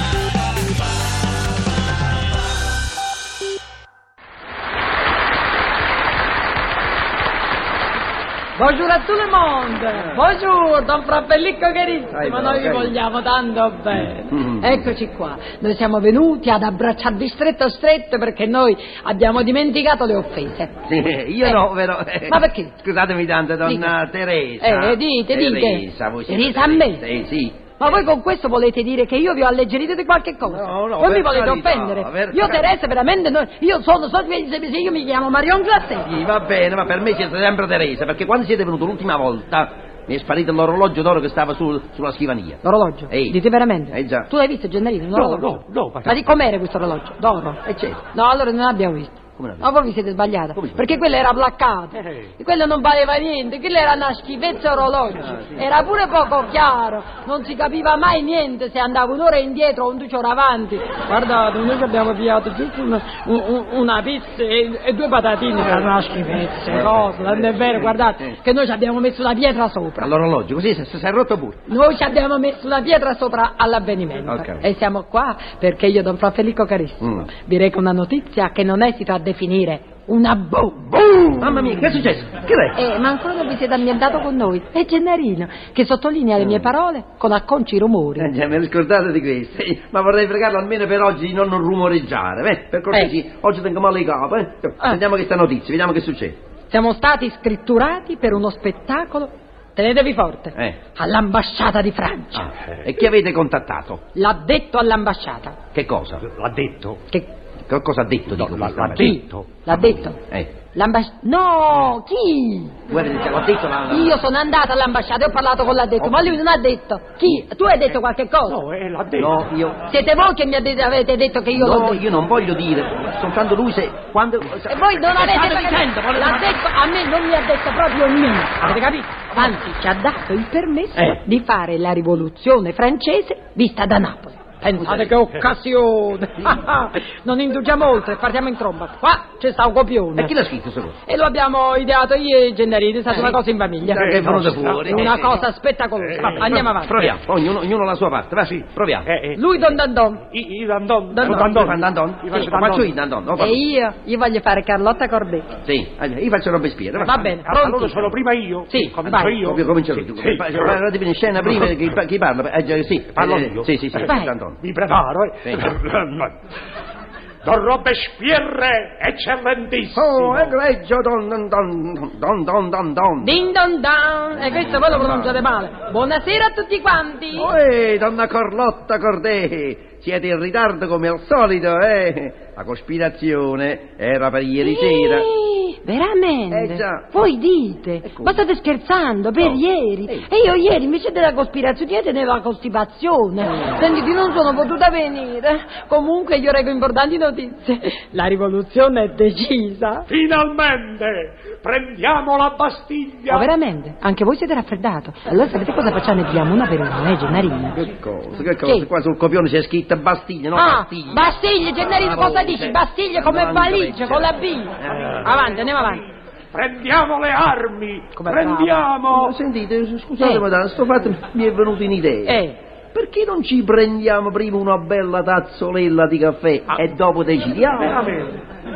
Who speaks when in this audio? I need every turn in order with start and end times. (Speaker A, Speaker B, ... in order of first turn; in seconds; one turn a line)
Speaker A: 8.6-20.7
Speaker B: 12.1-12.9
Speaker B: 14.3-14.8
Speaker B: 20.9-28.1
Speaker A: 22.3-22.8
Speaker A: 23.6-23.9
Speaker A: 24.6-27.1
Speaker A: 27.8-36.1
Speaker B: 30.4-32.8
Speaker B: 36.0-43.4
Speaker A: 42.6-47.6
Speaker B: 43.9-44.3
Speaker C: 45.1-46.3
Speaker B: 47.6-48.0
Speaker A: 48.1-70.1
Speaker B: 49.4-49.7
Speaker B: 50.5-50.9
Speaker B: 55.2-55.6
Speaker B: 66.7-68.3
Speaker B: 70.0-71.6
Speaker A: 71.7-81.6
Speaker B: 74.2-74.7
Speaker B: 77.0-77.3
Speaker B: 81.4-82.8
Speaker A: 82.7-88.3
Speaker B: 86.4-86.7
Speaker B: 88.2-96.4
Speaker A: 96.7-102.5
Speaker B: 102.3-104.0
Speaker A: 104.1-105.6
Speaker B: 105.7-106.2
Speaker C: 106.2-107.0
Speaker B: 107.7-110.5
Speaker C: 108.3-109.5
Speaker A: 109.0-110.2
Speaker A: 110.7-112.8
Speaker B: 112.9-114.2
Speaker A: 113.9-118.6
Speaker B: 116.0-116.4
Speaker C: 118.5-119.4
Speaker B: 119.2-119.8
Speaker A: 119.9-122.0
Speaker B: 121.5-126.6
Speaker A: 124.7-140.3
Speaker B: 134.8-135.2
Speaker B: 140.2-141.0
Speaker A: 141.1-144.0
Speaker B: 143.1-145.4
Speaker C: 143.9-145.3
Speaker A: 144.8-147.1
Speaker C: 146.0-146.7
Speaker B: 146.2-149.1
Speaker C: 148.5-152.9
Speaker A: 149.3-150.2
Speaker A: 151.1-151.7
Speaker B: 151.2-153.6
Speaker A: 153.4-155.5
Speaker B: 155.6-157.3
Speaker A: 157.0-157.9
Speaker C: 157.1-160.8
Speaker A: 158.7-159.4
Speaker B: 159.0-164.6
Speaker C: 163.1-166.4
Speaker A: 164.0-164.3
Speaker B: 165.4-165.7
Speaker C: 167.4-170.6
Speaker B: 169.9-173.3
Speaker A: 173.2-177.5
Speaker B: 174.3-175.4
Speaker B: 177.3-185.3
Speaker A: 184.6-200.1
Speaker B: 186.5-187.1
Speaker B: 188.0-188.4
Speaker B: 189.4-190.3
Speaker C: 200.1-203.5
Speaker A: 203.3-207.8
Speaker B: 207.7-215.4
Speaker A: 208.6-208.9
Speaker A: 210.5-216.0
Speaker C: 214.9-216.0
Speaker C: 216.5-219.3
Speaker A: 218.1-218.8
Speaker B: 219.1-222.4
Speaker A: 220.2-220.4
Speaker A: 222.2-222.6
Speaker B: 222.9-228.0
Speaker C: 227.8-228.4